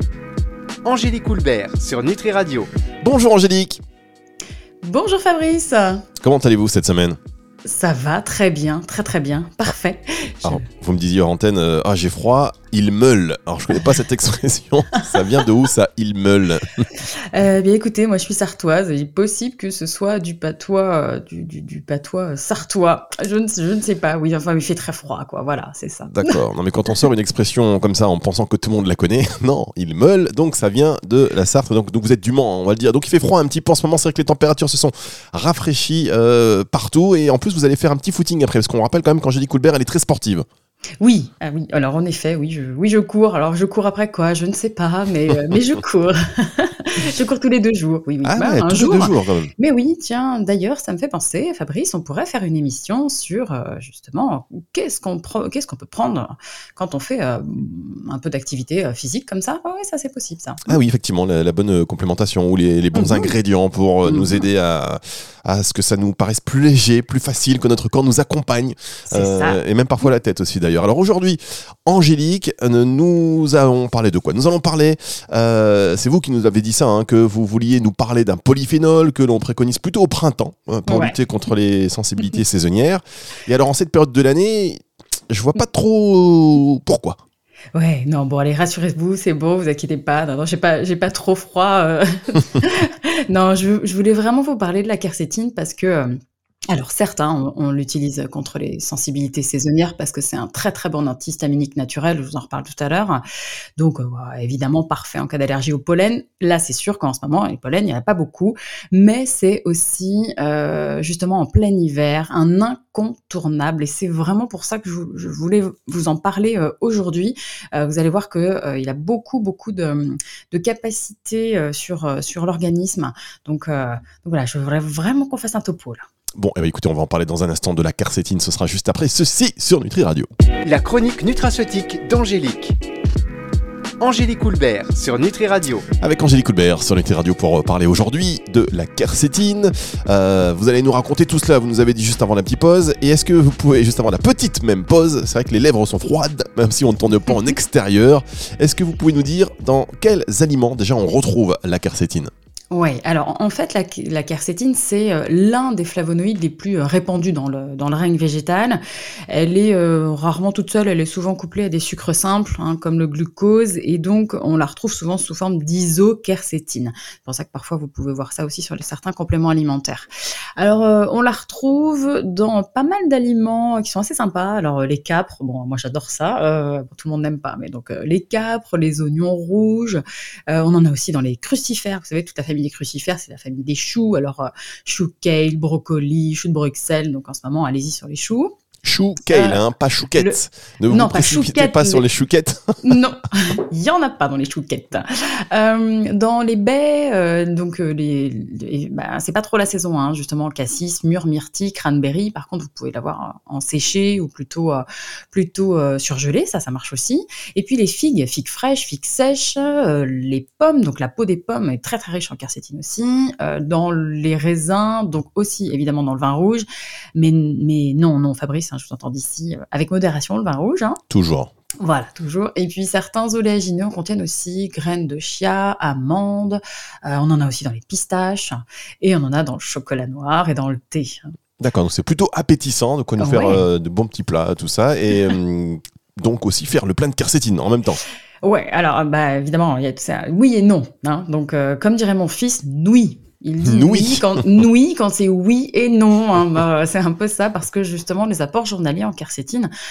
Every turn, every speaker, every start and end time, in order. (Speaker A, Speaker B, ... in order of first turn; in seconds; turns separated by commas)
Speaker A: 0.8-2.7, Speaker B: 3.0-3.8, Speaker C: 4.8-6.0, Speaker B: 6.2-7.2, Speaker C: 7.6-10.6, Speaker B: 10.4-16.9, Speaker C: 17.3-26.3, Speaker B: 26.1-40.5, Speaker C: 41.0-60.8, Speaker B: 48.2-49.5, Speaker B: 60.6-87.2, Speaker C: 62.9-63.3, Speaker C: 64.0-64.4, Speaker C: 69.1-69.6, Speaker C: 80.9-81.1, Speaker C: 87.7-96.1, Speaker C: 96.7-103.2, Speaker C: 103.8-126.0, Speaker B: 126.3-130.3, Speaker A: 130.6-132.8, Speaker A: 134.0-135.8, Speaker B: 136.0-152.3, Speaker C: 152.7-188.5, Speaker B: 188.8-192.9, Speaker C: 189.2-189.6, Speaker C: 190.9-192.0, Speaker C: 192.8-221.0, Speaker B: 221.1-221.5, Speaker C: 221.8-231.3, Speaker B: 231.6-238.0, Speaker C: 233.2-233.6, Speaker C: 238.4-249.7, Speaker B: 243.6-244.4